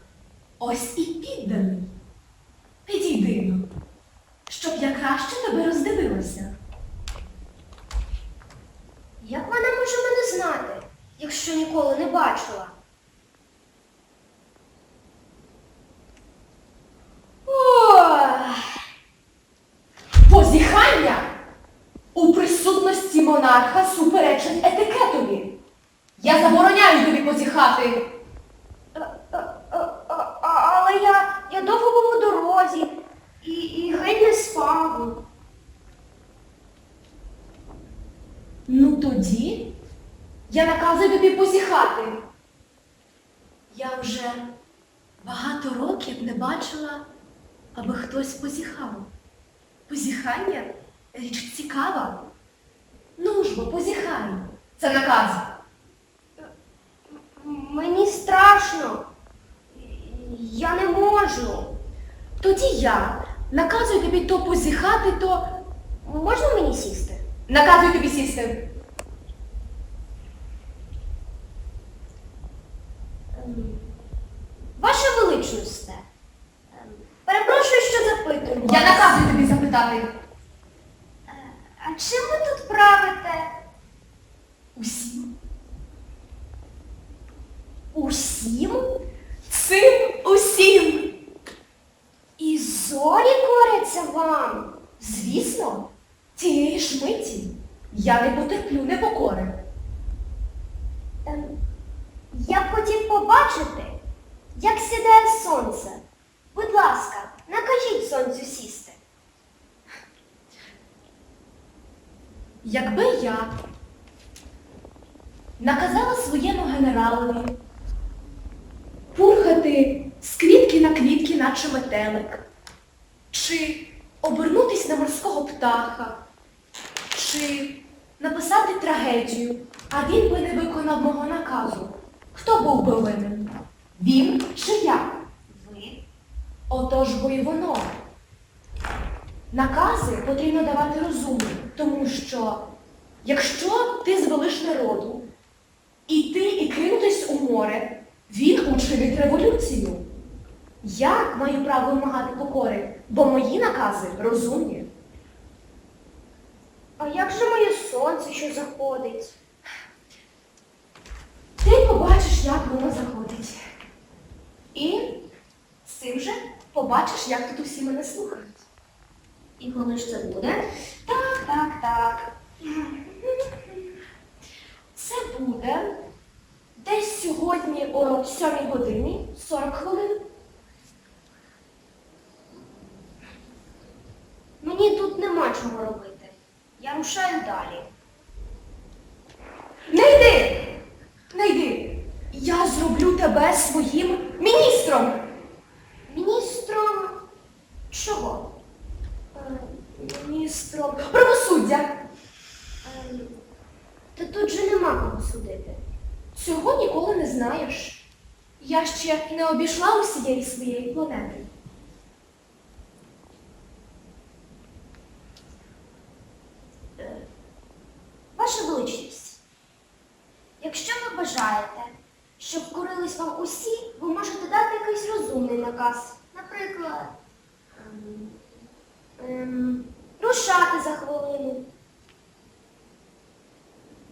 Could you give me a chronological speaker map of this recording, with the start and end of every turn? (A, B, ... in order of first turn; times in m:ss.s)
0:00.6-0:01.9 A
0:02.9-0:03.7 A
0:04.5-0:06.6 A
0:09.2-0:12.8 B
0:17.5-0:18.8 B
0:20.2-0:21.3 A
0:22.1-0:25.6 A
0:26.2-0:28.0 A
0:28.9-0:35.2 B
0:38.7-0:39.8 A
0:40.5-0:42.2 A
0:43.7-0:44.5 A
0:45.2-0:47.1 A
0:47.8-0:49.1 A
0:49.9-0:52.2 A
0:53.2-0:55.5 A
0:57.1-0:59.1 B
0:59.7-1:01.8 B
1:02.4-1:05.5 A
1:06.0-1:07.3 B
1:07.5-1:08.6 A
1:13.3-1:13.9 B
1:14.8-1:16.0 B
1:16.7-1:19.2 B
1:18.6-1:20.1 A
1:21.3-1:23.5 B
1:24.8-1:25.3 A
1:27.9-1:28.9 B
1:29.5-1:31.1 A
1:32.4-1:34.8 B
1:35.0-1:39.6 A
1:41.2-1:41.6 B
1:42.3-1:44.0 B
1:44.6-1:49.0 B
1:52.6-1:53.5 A
1:55.6-1:57.6 A
1:59.1-2:02.5 A
2:03.3-2:06.2 A
2:07.1-2:15.1 A
2:15.5-2:16.0 B
2:16.7-2:18.0 A
2:19.5-2:22.7 A
2:23.2-2:25.3 A
2:26.1-2:30.1 A
2:30.8-2:34.9 A
2:37.0-2:39.4 B
2:41.6-2:43.6 A
2:44.7-2:45.2 A
2:45.8-2:48.7 A
2:49.6-2:52.3 B
2:54.9-2:56.0 A
2:56.8-3:00.3 A
3:04.6-3:07.9 B
3:09.9-3:10.7 A
3:11.3-3:15.3 A
3:16.1-3:17.2 B
3:17.9-3:18.6 B
3:19.4-3:20.9 B
3:20.7-3:22.0 A
3:22.8-3:23.4 B
3:24.1-3:25.8 B
3:26.3-3:31.5 A
3:38.4-3:39.4 B
3:40.6-3:47.2 B
3:47.8-3:48.4 B
3:49.2-3:51.7 B